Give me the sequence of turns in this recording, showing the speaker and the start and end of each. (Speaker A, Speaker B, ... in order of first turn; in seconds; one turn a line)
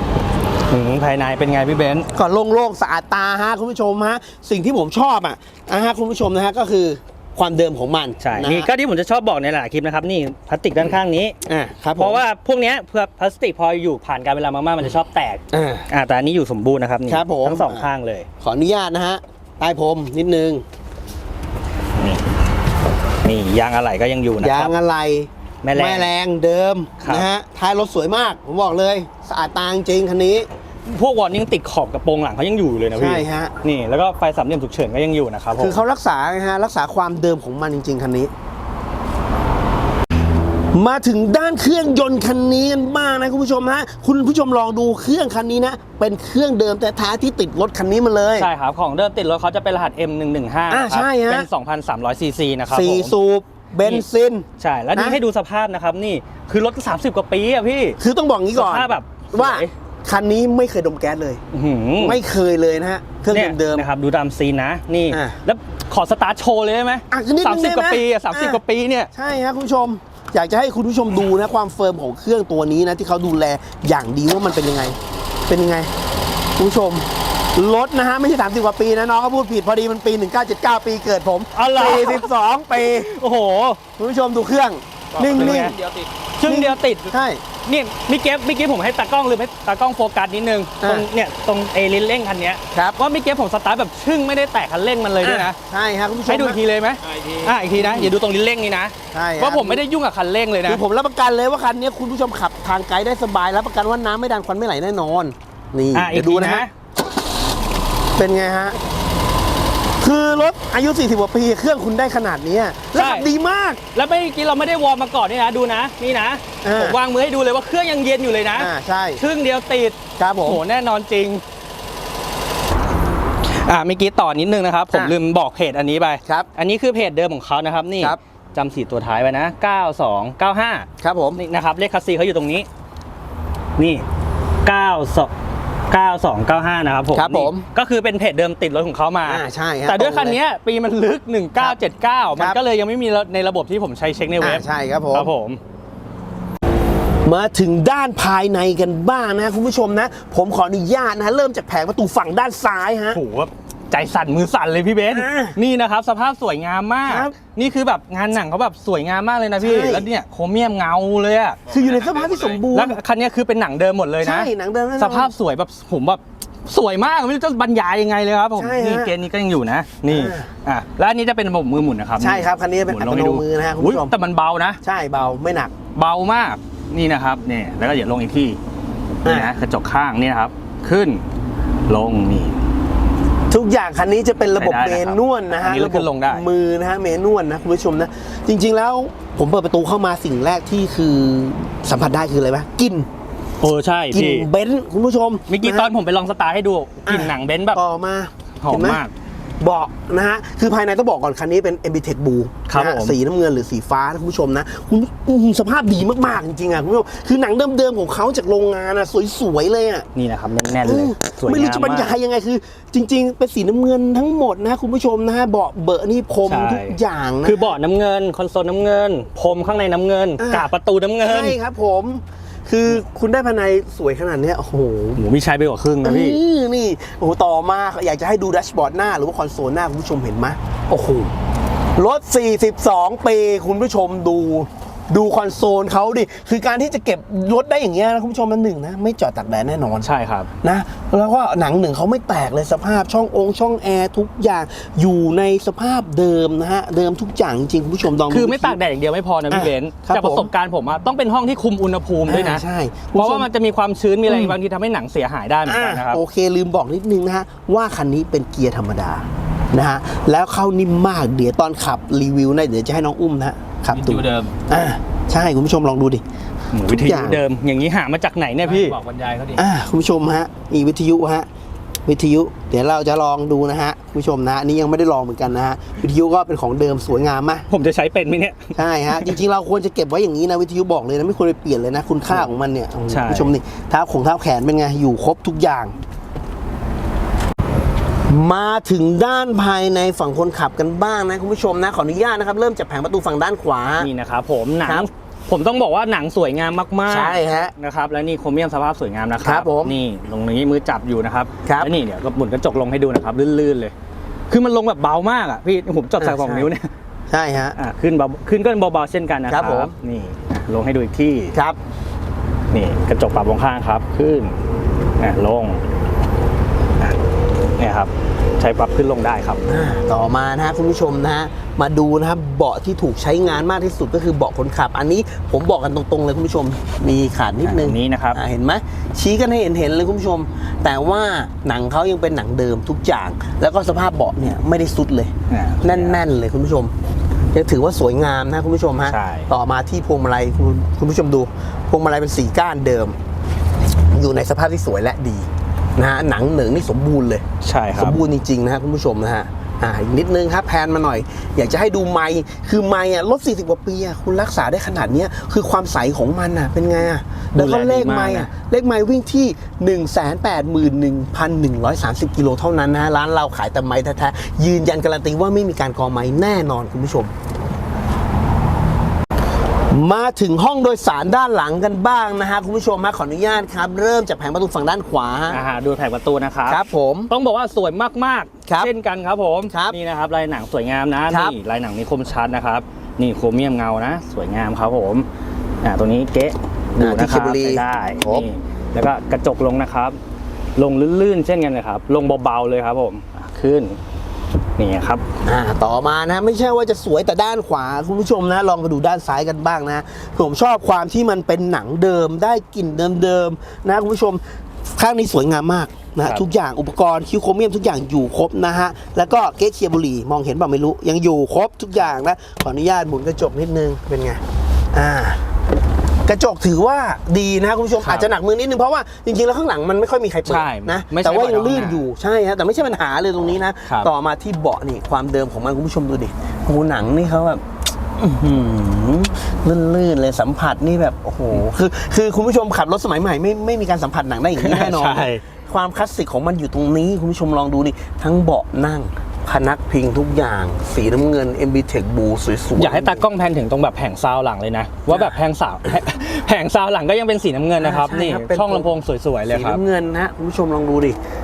Speaker A: 0.7-2.1
Speaker B: 2.1-8.7
Speaker A: 8.2-11.4
Speaker B: 11.5-12.2
Speaker A: 12.0-18.3
Speaker B: 15.5-15.9
Speaker B: 17.1-17.9
Speaker B: 18.4-20.6
Speaker A: 22.0-22.3
Speaker A: 23.2-24.7
Speaker B: 24.4-30.5
Speaker A: 25.6-26.1
Speaker A: 27.0-27.3
Speaker A: 30.9-35.8
Speaker B: 33.0-33.5
Speaker B: 35.5-38.3
Speaker B: 40.7-48.5
Speaker A: 48.4-53.1
Speaker B: 50.7-51.5
Speaker B: 52.7-55.2
Speaker A: 54.6-58.0
Speaker B: 58.0-61.4
Speaker A: 58.5-59.7
Speaker A: 61.5-62.2
Speaker B: 62.0-63.9
Speaker A: 63.3-69.1
Speaker B: 65.1-65.4
Speaker B: 67.1-68.6
Speaker B: 69.1-75.0
Speaker B: 75.5-75.9
Speaker B: 76.6-83.1
Speaker A: 81.5-82.3
Speaker A: 82.8-83.8
Speaker B: 84.0-85.8
Speaker C: 85.2-86.1
Speaker A: 85.2-85.8
Speaker A: 86.4-95.6
Speaker B: 86.4-87.4
Speaker B: 90.8-91.1
Speaker B: 92.7-93.0
Speaker B: 95.2-96.6
Speaker A: 96.3-100.8
Speaker B: 97.7-98.1
Speaker B: 99.1-99.8
Speaker B: 100.6-106.7
Speaker A: 105.9-106.7
Speaker B: 108.2-108.8
Speaker B: 110.0-113.8
Speaker A: 112.9-113.3
Speaker A: 113.9-121.4
Speaker B: 116.6-117.0
Speaker B: 118.5-119.2
Speaker B: 120.2-120.6
Speaker A: 123.4-132.7
Speaker B: 131.0-131.4
Speaker A: 133.8-134.1
Speaker A: 134.6-135.3
Speaker A: 135.9-145.6
Speaker B: 137.1-137.7
Speaker B: 139.2-140.4
Speaker B: 142.3-142.6
Speaker B: 144.4-145.3
Speaker B: 147.2-153.2
Speaker A: 153.1-161.6
Speaker B: 155.1-155.6
Speaker B: 157.1-157.3
Speaker B: 159.6-160.1
Speaker B: 161.7-163.0
Speaker C: 161.7-162.6
Speaker A: 162.7-174.8
Speaker B: 164.2-165.3
Speaker B: 168.6-169.2
Speaker B: 170.1-170.5
Speaker B: 172.2-174.1
Speaker B: 174.8-175.7
Speaker A: 175.9-178.6
Speaker A: 179.2-181.2
Speaker B: 179.2-179.5
Speaker A: 181.9-182.6
Speaker B: 183.5-193.1
Speaker A: 184.6-186.5
Speaker A: 193.6-194.5
Speaker B: 194.1-195.9
Speaker A: 195.5-197.8
Speaker B: 197.1-199.0
Speaker A: 198.6-199.1
Speaker B: 199.6-210.1
Speaker A: 202.7-203.2
Speaker A: 210.2-212.2
Speaker B: 210.8-217.8
Speaker A: 216.4-221.6
Speaker B: 220.4-220.7
Speaker B: 221.2-225.2
Speaker A: 225.2-226.4
Speaker B: 226.0-231.3
Speaker B: 232.0-240.1
Speaker A: 240.0-240.5
Speaker B: 240.6-248.8
Speaker A: 248.3-252.6
Speaker B: 249.5-250.5
Speaker B: 252.3-253.5
Speaker A: 253.2-256.2
Speaker B: 254.3-254.6
Speaker B: 255.7-266.2
Speaker C: 263.9-264.8
Speaker A: 266.7-269.0
Speaker B: 266.9-267.4
Speaker C: 268.6-269.6
Speaker B: 269.6-271.5
Speaker B: 272.1-277.7
Speaker A: 277.7-279.4
Speaker B: 278.8-285.9
Speaker A: 283.1-283.5
Speaker B: 288.3-294.1
Speaker A: 294.0-303.9
Speaker B: 297.1-297.7
Speaker B: 299.4-300.0
Speaker B: 301.6-301.9
Speaker A: 304.5-306.9
Speaker B: 306.2-306.7
Speaker B: 307.3-307.8
Speaker A: 307.8-311.6
Speaker B: 309.5-309.9
Speaker A: 312.7-314.6
Speaker A: 315.2-315.8
Speaker A: 317.8-319.6
Speaker B: 319.7-336.9
Speaker A: 327.6-328.4
Speaker A: 335.5-336.2
Speaker B: 337.5-343.2
Speaker A: 339.1-339.5
Speaker B: 344.1-347.4
Speaker A: 347.6-348.2
Speaker B: 347.9-367.3
Speaker A: 357.6-358.5
Speaker B: 369.9-375.6
Speaker A: 375.5-385.3
Speaker B: 376.7-377.3
Speaker B: 379.7-380.0
Speaker B: 381.3-381.6
Speaker A: 385.8-390.2
Speaker B: 387.0-388.5
Speaker A: 390.8-394.0
Speaker A: 394.8-395.2
Speaker B: 395.4-404.4
Speaker B: 405.0-414.4
Speaker B: 414.9-415.4
Speaker B: 416.3-427.6
Speaker A: 418.0-418.3
Speaker A: 420.5-422.0
Speaker B: 428.2-443.3
Speaker A: 434.6-435.4
Speaker A: 442.8-449.8
Speaker B: 447.8-448.9
Speaker B: 449.5-451.2